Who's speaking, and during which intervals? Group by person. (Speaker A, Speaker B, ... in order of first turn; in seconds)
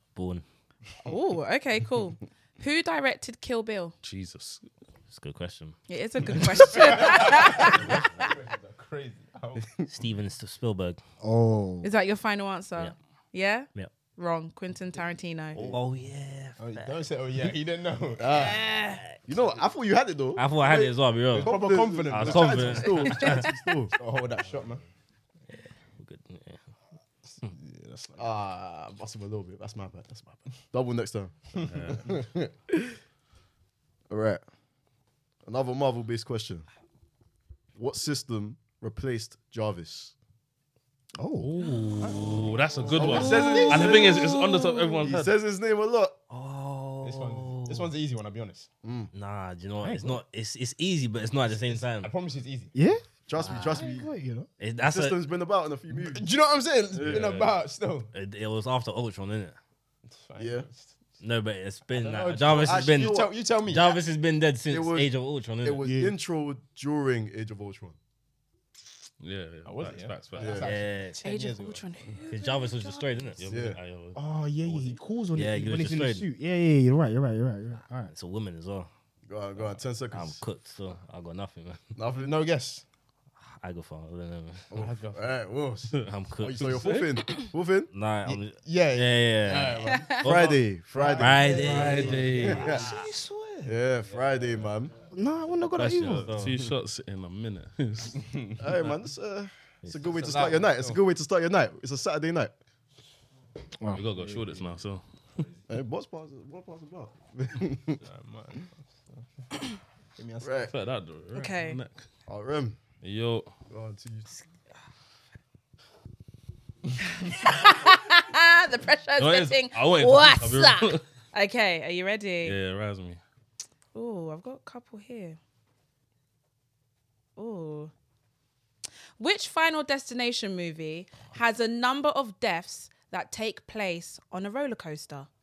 Speaker A: 0.1-0.4, 5.1-5.8, 7.9-8.2, 9.9-11.0, 15.6-17.0, 20.4-23.5, 25.5-26.6, 46.3-47.9, 49.1-52.1, 53.4-53.7, 54.6-55.2, 58.1-59.6, 61.2-65.8, 70.5-71.2, 72.3-73.5, 75.3-76.3, 78.1-78.9, 80.1-82.0, 83.5-84.7, 86.0-93.0, 95.8-96.6, 99.8-100.1
Speaker B: 1.0-4.0, 5.9-8.3, 11.8-15.6, 18.4-19.0, 23.0-23.4, 43.2-44.9, 71.2-73.3, 89.8-90.2, 111.3-111.8, 117.1-122.6, 123.9-125.4, 127.4-127.9, 129.2-135.3
Speaker C: 4.0-4.7, 31.6-32.1, 41.4-45.3, 69.2-70.6, 73.4-74.2, 86.6-87.5, 91.6-92.7, 96.0-98.3, 103.9-105.0, 110.7-112.1, 113.0-113.5, 119.2-121.0, 122.4-123.2
Speaker D: 6.7-9.7, 16.6-18.5, 21.3-23.0, 24.0-24.8, 27.3-28.3, 31.6-32.2, 47.0-48.7, 51.3-52.7, 55.9-58.1, 60.1-61.0, 62.5-64.0, 69.7-71.9, 74.7-75.0, 82.2-82.8, 84.7-85.5, 88.2-90.3, 90.9-94.7, 98.2-98.8, 100.0-101.0, 104.0-104.8, 105.3-105.6, 108.0-109.3, 110.2-110.7
Speaker E: 11.2-11.9, 41.2-41.5, 49.8-50.2, 52.7-53.0, 53.7-54.5, 65.8-66.2, 74.2-78.1, 92.8-93.7, 95.1-96.3, 103.8-104.0
Speaker F: 18.2-18.6, 19.3-23.9, 28.2-31.4, 32.0-33.0, 34.1-34.4, 35.5-36.7, 37.8-40.1, 43.0-46.2, 48.8-49.1, 53.3-54.1, 54.8-56.3, 56.9-57.5, 60.4-60.7, 62.0-63.4, 64.7-68.0, 70.4-70.8, 73.5-73.8, 79.3-80.4, 82.0-82.4, 84.7-87.9, 90.2-92.9, 93.7-95.0, 98.6-102.5, 105.7-108.0, 110.4-110.7, 112.3-112.8, 113.7-114.3